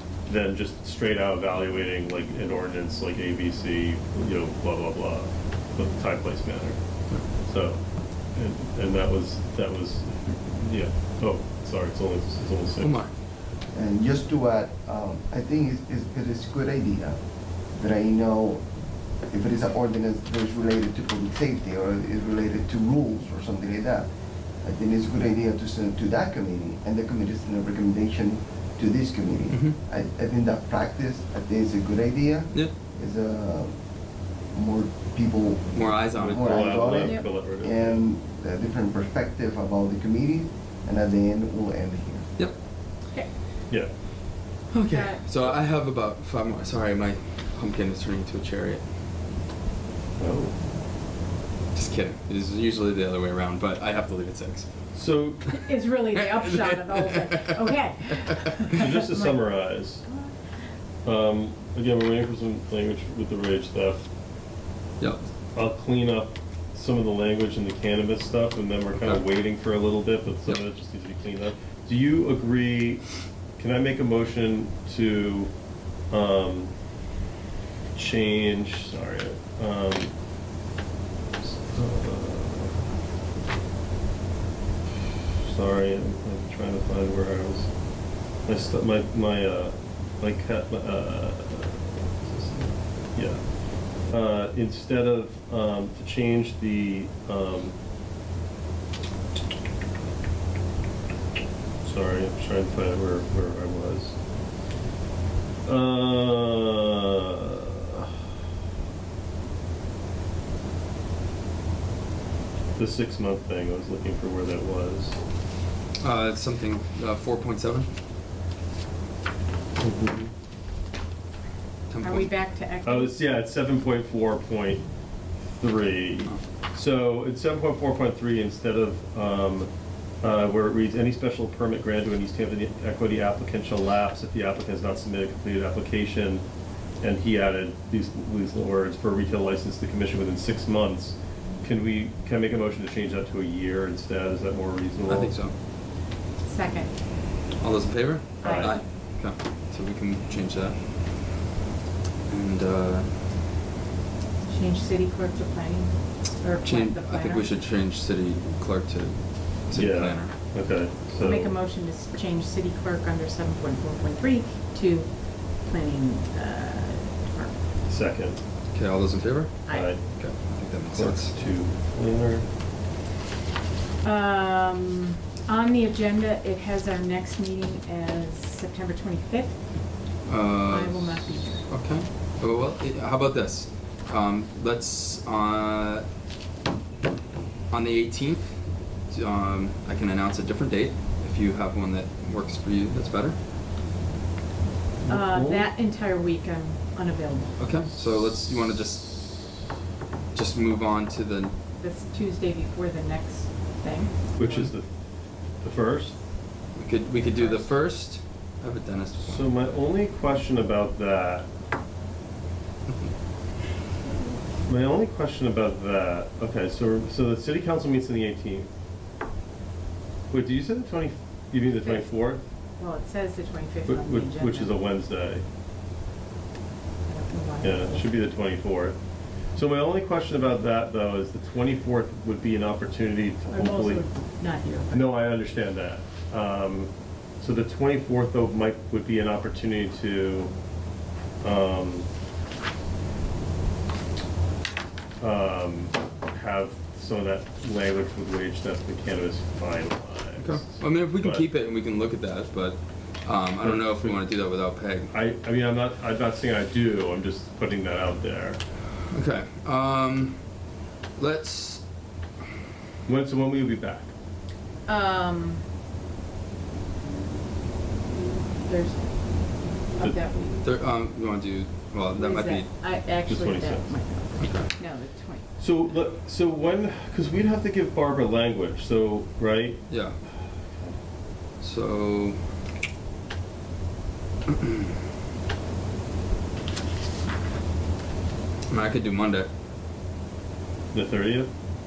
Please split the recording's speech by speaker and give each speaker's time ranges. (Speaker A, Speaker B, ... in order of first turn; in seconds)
Speaker A: 0.2-13.0, 36.1-38.0, 50.2-50.6, 54.9-55.5, 58.7-60.0, 61.0-64.1, 65.5-75.5, 76.1-76.7, 77.9-80.1, 81.4-82.8, 85.4-87.7, 88.3-97.8, 101.8-104.2, 105.6-107.1, 112.8-115.2, 119.8-120.3, 122.8-124.8, 125.6-129.7, 130.2-136.5, 137.0-145.4, 148.4-148.8, 159.7-161.6, 167.9-168.4, 169.7-170.2, 170.8-172.4, 195.0-195.7, 204.3-204.9, 205.6-206.2, 209.2-211.5, 214.7-218.7, 220.3-222.4, 223.8-225.4, 227.6-229.0, 229.5-234.0, 234.9-240.5, 241.4-242.1, 245.2-251.4, 253.6-254.3, 255.1-258.6, 263.1-264.1, 273.2-274.0, 275.6-280.9, 290.9-291.5
Speaker B: 12.8-13.1, 29.5-29.8, 35.7-36.9, 44.7-48.8, 51.7-55.5, 56.1-57.5, 116.0-117.9, 121.9-122.3, 145.1-145.5, 147.6-150.8, 152.3-153.1, 156.6-160.3, 168.7-171.3, 180.2-186.1, 187.7-193.4, 197.6-199.4, 200.3-201.5, 206.8-209.5, 250.4-255.1, 259.1-260.5, 261.2-261.8, 270.6-272.7, 274.4-274.7, 279.9-280.2, 281.6-282.4, 288.7-289.5
Speaker C: 13.7-18.6, 19.2-24.1, 24.6-33.8, 34.5-42.3
Speaker D: 36.9-37.3, 44.9-45.2, 55.5-60.4, 122.0-123.1, 146.4-146.9, 148.4-148.9, 154.5-157.4, 161.2-167.7, 169.6-169.9, 174.0-179.6, 180.7-181.7, 195.1-197.8, 201.8-204.7, 207.1-207.7, 221.8-222.2, 222.8-224.8, 227.1-228.1, 233.5-235.1, 264.9-265.6, 268.6-270.6, 272.1-275.5